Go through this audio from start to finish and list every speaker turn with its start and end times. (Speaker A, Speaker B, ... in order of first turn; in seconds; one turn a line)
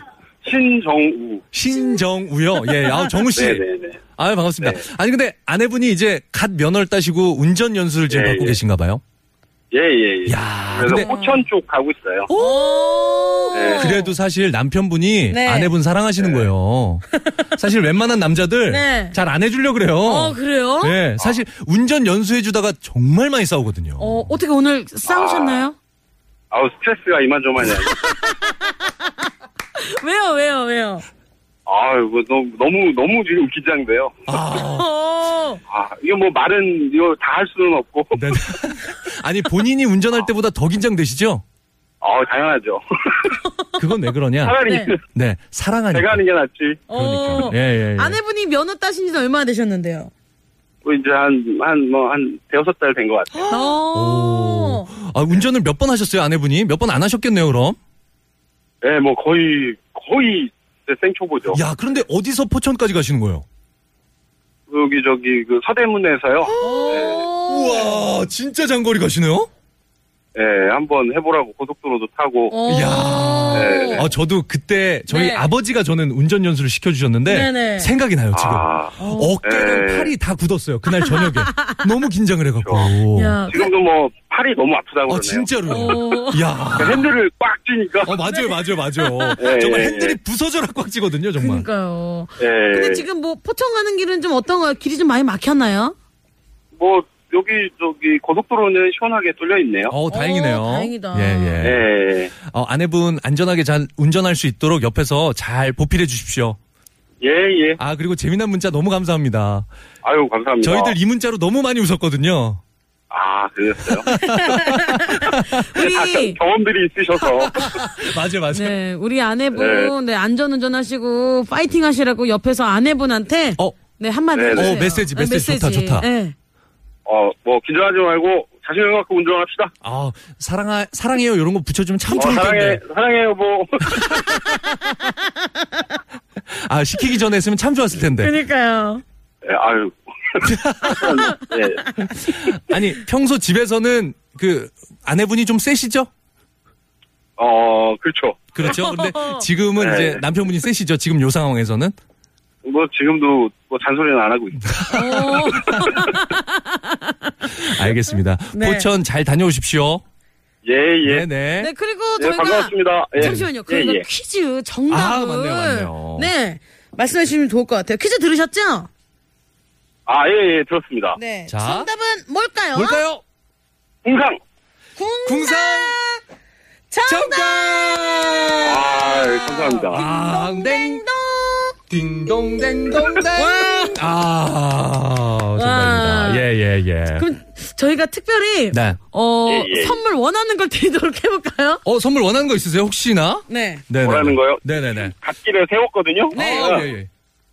Speaker A: 0.4-1.4
Speaker B: 1.5-3.6
Speaker C: 2.6-3.2
Speaker A: 3.3-4.0
Speaker B: 4.2-9.0
Speaker A: 8.1-8.6
Speaker A: 9.7-12.3
Speaker B: 10.2-11.1
Speaker C: 10.8-11.3
Speaker B: 12.3-24.3
Speaker C: 12.3-14.1
Speaker A: 13.5-13.9
Speaker C: 15.3-15.7
Speaker A: 16.2-16.5
Speaker C: 18.7-19.2
Speaker C: 20.0-21.0
Speaker C: 24.0-25.7
Speaker A: 25.0-25.7
Speaker A: 26.5-27.9
Speaker C: 27.8-29.1
Speaker C: 29.8-31.0
Speaker A: 31.6-34.1
Speaker B: 34.3-34.9
Speaker C: 34.3-35.6
Speaker A: 35.7-38.2
Speaker B: 38.1-41.4
Speaker A: 42.0-43.4
Speaker B: 43.8-46.2
Speaker A: 44.4-45.0
Speaker C: 44.6-44.9
Speaker A: 45.9-46.8
Speaker C: 46.9-50.1
Speaker B: 46.9-48.2
Speaker A: 50.8-53.6
Speaker C: 53.5-54.9
Speaker B: 53.9-57.8
Speaker A: 58.8-61.6
Speaker B: 61.5-63.4
Speaker A: 64.7-67.2
Speaker C: 66.6-67.9
Speaker B: 67.4-69.5
Speaker A: 70.3-72.6
Speaker C: 72.5-74.1
Speaker B: 72.7-83.4
Speaker A: 73.5-74.1
Speaker C: 75.1-75.5
Speaker C: 77.3-77.9
Speaker A: 78.3-80.1
Speaker C: 79.0-79.3
Speaker C: 81.0-81.8
Speaker A: 82.6-82.9
Speaker C: 83.1-83.7
Speaker A: 83.5-86.0
Speaker B: 85.1-87.1
Speaker C: 85.7-86.5
Speaker A: 86.7-88.1
Speaker B: 88.0-91.7
Speaker C: 88.2-89.4
Speaker A: 89.4-90.2
Speaker C: 91.4-95.9
Speaker A: 92.4-93.0
Speaker A: 96.8-100.0
Speaker B: 99.9-101.8
Speaker C: 100.1-101.6
Speaker A: 101.6-102.3
Speaker B: 102.4-106.6
Speaker A: 107.2-107.8
Speaker B: 107.8-109.7
Speaker A: 110.0-111.0
Speaker B: 110.6-112.6
Speaker A: 113.1-114.1
Speaker B: 114.1-115.5
Speaker C: 114.2-116.4
Speaker A: 115.7-117.9
Speaker B: 117.4-118.8
Speaker C: 118.5-126.3
Speaker A: 119.5-119.9
Speaker A: 124.3-124.8
Speaker B: 124.5-126.1
Speaker A: 127.0-129.7
Speaker B: 129.8-132.8
Speaker A: 132.1-134.3
Speaker B: 133.9-134.9
Speaker C: 134.7-135.1
Speaker B: 136.5-138.3
Speaker C: 138.2-139.0
Speaker A: 139.4-141.9
Speaker B: 140.4-141.2
Speaker C: 140.9-141.3
Speaker B: 142.0-146.1
Speaker A: 147.4-148.4
Speaker B: 148.5-151.9
Speaker C: 148.6-149.4
Speaker A: 149.8-150.2
Speaker A: 152.6-154.7
Speaker B: 154.7-155.9
Speaker C: 154.9-157.9
Speaker B: 157.5-160.0
Speaker C: 158.5-158.9
Speaker A: 160.6-161.3
Speaker B: 161.0-161.7
Speaker C: 161.6-168.9
Speaker A: 162.2-164.0
Speaker B: 163.2-163.4
Speaker B: 164.9-166.3
Speaker A: 170.1-171.2
Speaker C: 171.2-173.0
Speaker B: 171.5-171.9
Speaker B: 172.7-173.2
Speaker A: 174.0-174.4
Speaker C: 175.0-176.2
Speaker B: 175.2-176.0
Speaker C: 176.9-181.8
Speaker B: 177.1-178.8
Speaker A: 178.6-180.0
Speaker B: 179.9-181.0
Speaker B: 181.9-187.3
Speaker C: 183.1-184.0
Speaker C: 185.6-186.4
Speaker C: 187.2-191.8
Speaker B: 188.7-189.0
Speaker A: 189.4-190.0
Speaker B: 191.8-195.1
Speaker C: 193.5-193.8
Speaker A: 194.0-196.9
Speaker C: 196.3-196.9
Speaker B: 196.3-197.1